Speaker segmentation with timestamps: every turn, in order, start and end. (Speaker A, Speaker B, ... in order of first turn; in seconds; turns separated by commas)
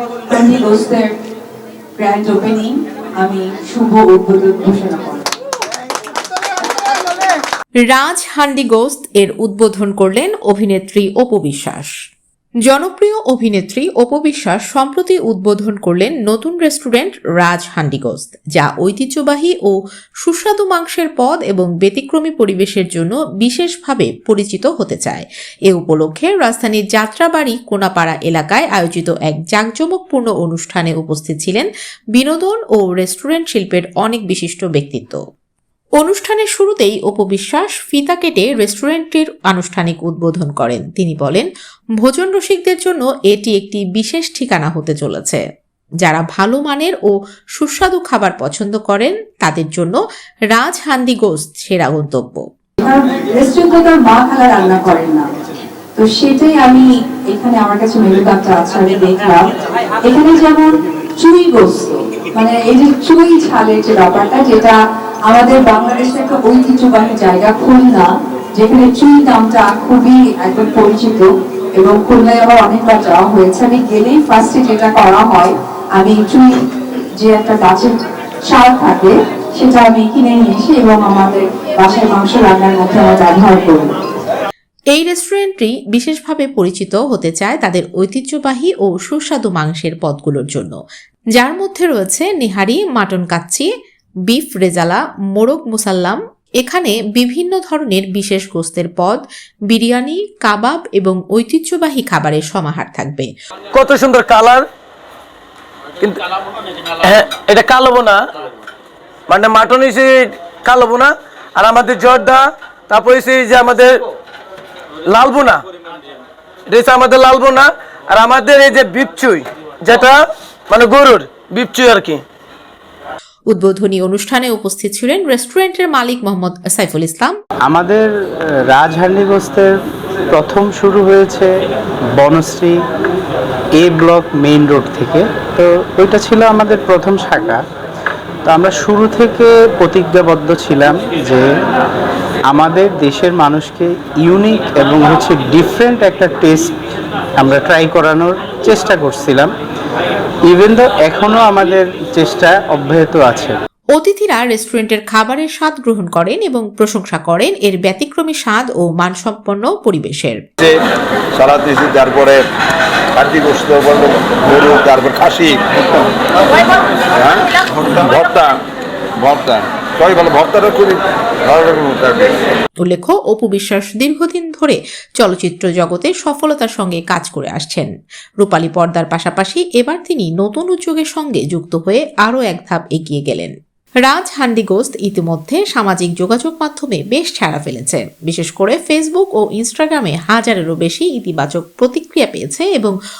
Speaker A: 0.3-1.1, Speaker A: 2.0-5.3, Speaker B: 7.8-11.9, Speaker B: 12.7-35.2, Speaker B: 36.0-45.4, Speaker B: 46.0-50.0, Speaker B: 50.5-52.4, Speaker A: 52.8-55.3, Speaker A: 56.0-59.5, Speaker A: 60.0-76.6, Speaker A: 77.2-83.9, Speaker B: 84.9-90.8, Speaker B: 91.3-93.7, Speaker B: 94.3-103.3, Speaker C: 103.7-104.6, Speaker C: 107.0-108.2, Speaker C: 109.3-114.0, Speaker C: 115.1-115.6, Speaker C: 116.7-122.2, Speaker B: 123.5-127.3, Speaker D: 127.7-128.1, Speaker D: 128.7-129.8, Speaker D: 130.3-131.5, Speaker D: 132.2-132.8, Speaker D: 133.8-137.6, Speaker D: 138.4-141.4, Speaker D: 142.5-146.7, Speaker D: 147.4-149.5, Speaker D: 150.5-153.5, Speaker B: 153.9-160.4, Speaker E: 161.3-162.4, Speaker E: 163.2-166.1, Speaker E: 166.6-168.6, Speaker E: 169.2-172.4, Speaker B: 172.8-183.5, Speaker B: 184.0-192.9